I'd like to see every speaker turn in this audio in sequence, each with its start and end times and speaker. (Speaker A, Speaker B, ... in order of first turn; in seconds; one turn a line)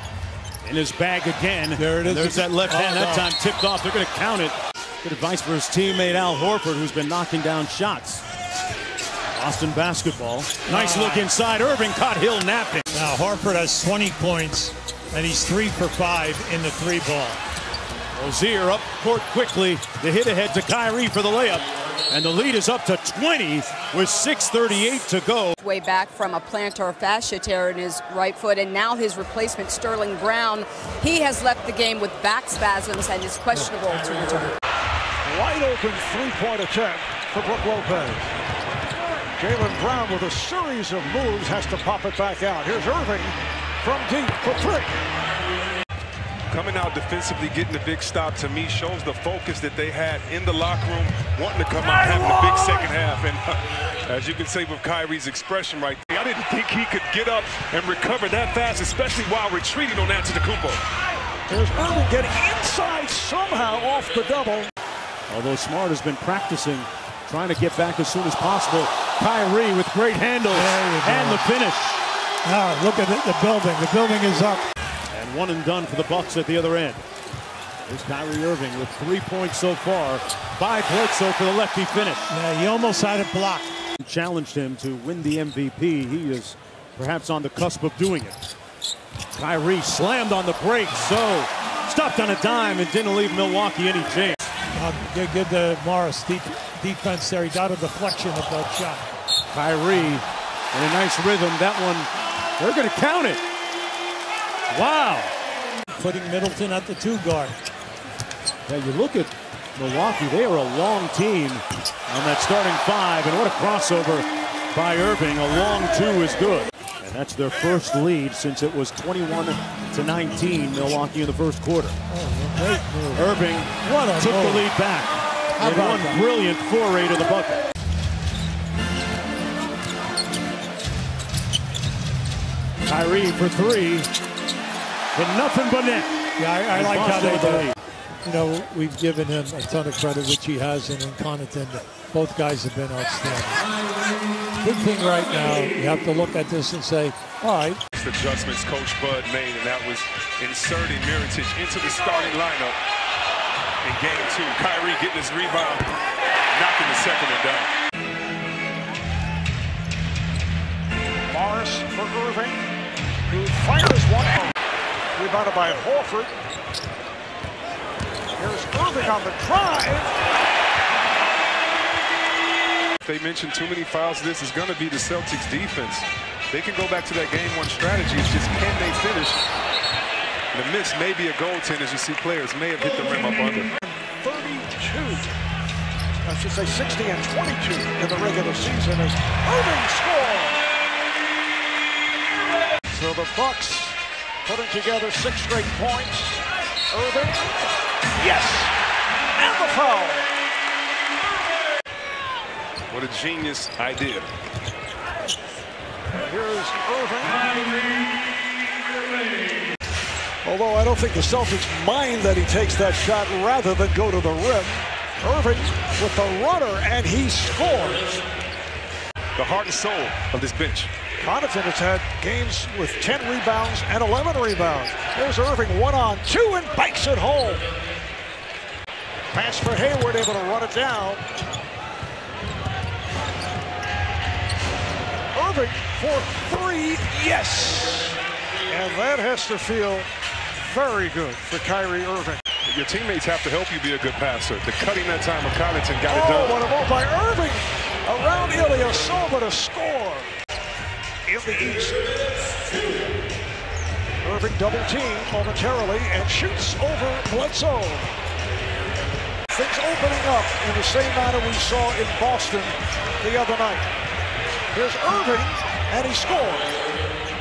Speaker A: 0.6-8.2
Speaker B: 1.8-3.3
Speaker A: 9.3-12.8
Speaker B: 10.7-11.3
Speaker B: 12.9-17.4
Speaker A: 18.1-25.6
Speaker C: 25.6-34.2
Speaker D: 34.1-34.4
Speaker D: 35.2-38.3
Speaker D: 39.4-45.0
Speaker E: 46.5-60.8
Speaker D: 61.5-64.7
Speaker A: 65.3-72.0
Speaker B: 70.5-71.5
Speaker B: 72.5-74.6
Speaker A: 75.1-77.0
Speaker A: 77.9-82.4
Speaker B: 82.3-83.7
Speaker A: 84.0-88.4
Speaker A: 89.3-94.4
Speaker B: 94.8-99.1
Speaker A: 99.5-100.2
Speaker A: 100.7-103.4
Speaker B: 104.7-105.3
Speaker B: 106.0-107.6
Speaker A: 108.7-122.0
Speaker B: 122.1-124.7
Speaker A: 123.2-127.6
Speaker B: 125.6-126.2
Speaker A: 132.9-134.1
Speaker A: 135.2-136.1
Speaker B: 136.4-137.7
Speaker A: 136.7-137.7
Speaker B: 138.2-143.7
Speaker B: 144.6-147.8
Speaker E: 147.9-152.8
Speaker E: 153.8-155.9
Speaker E: 156.5-157.7
Speaker D: 161.3-162.6
Speaker D: 163.3-164.5
Speaker D: 165.2-166.3
Speaker D: 168.4-170.1
Speaker E: 173.0-179.4
Speaker E: 180.5-183.7
Speaker D: 183.9-185.3
Speaker D: 186.2-190.6
Speaker D: 192.9-197.7
Speaker D: 198.2-198.7
Speaker D: 199.4-200.3
Speaker E: 202.9-204.3
Speaker D: 206.2-207.5
Speaker D: 210.4-218.2
Speaker E: 219.4-220.9
Speaker D: 221.2-227.7
Speaker D: 229.3-231.2
Speaker D: 235.3-238.2
Speaker D: 238.7-240.1
Speaker D: 240.6-242.4
Speaker E: 242.7-246.6
Speaker D: 246.1-250.3
Speaker D: 251.3-252.1
Speaker D: 254.2-258.1
Speaker D: 259.5-263.9
Speaker D: 264.7-266.7